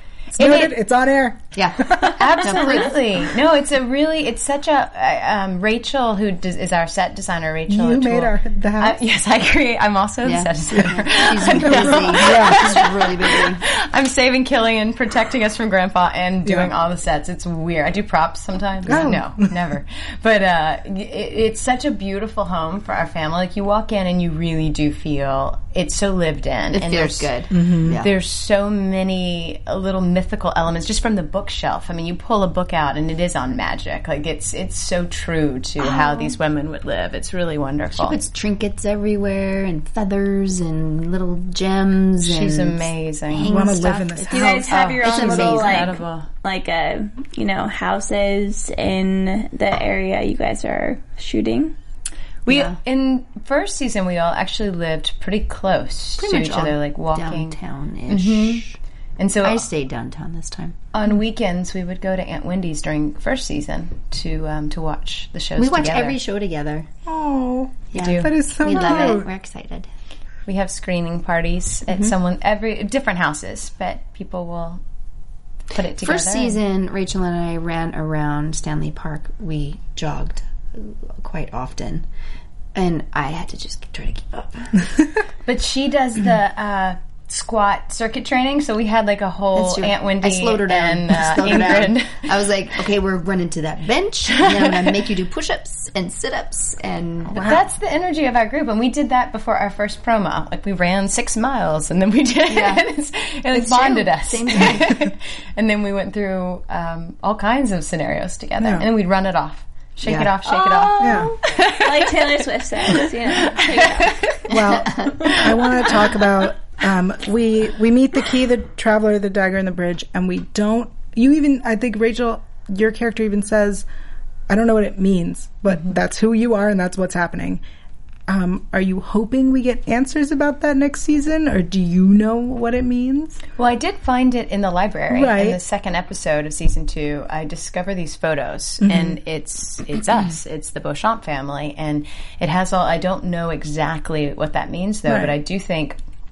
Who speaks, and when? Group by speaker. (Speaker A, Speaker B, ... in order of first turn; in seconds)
Speaker A: 0.3-2.1, 7.7-9.0, 10.7-12.8, 16.4-16.7, 18.9-19.6, 27.5-28.0, 43.4-44.9, 67.0-69.3, 97.3-97.7, 108.6-108.9, 111.0-111.3, 114.5-123.9, 124.5-127.6, 128.3-133.4, 135.1-135.6, 138.8-139.2, 145.1-145.3
Speaker B: 0.4-0.7, 2.0-27.3, 27.9-38.2, 42.2-43.7, 44.7-46.3, 52.4-57.6, 58.1-58.6, 59.2-59.7, 60.9-66.2, 67.9-69.2, 70.5-74.8, 75.7-76.6, 85.5-92.4, 94.4-95.0, 97.4-116.2, 133.6-146.0
Speaker C: 1.5-3.0, 10.2-13.6, 18.9-19.2, 26.7-28.1, 35.8-36.4, 38.0-46.0, 52.5-52.8, 56.2-58.8, 59.4-60.8, 65.6-66.9, 67.9-69.9, 76.0-82.0, 82.7-84.9, 89.5-97.5, 102.5-102.8, 103.5-105.1, 110.1-110.3, 114.9-115.2
Speaker D: 44.3-51.7, 110.4-114.2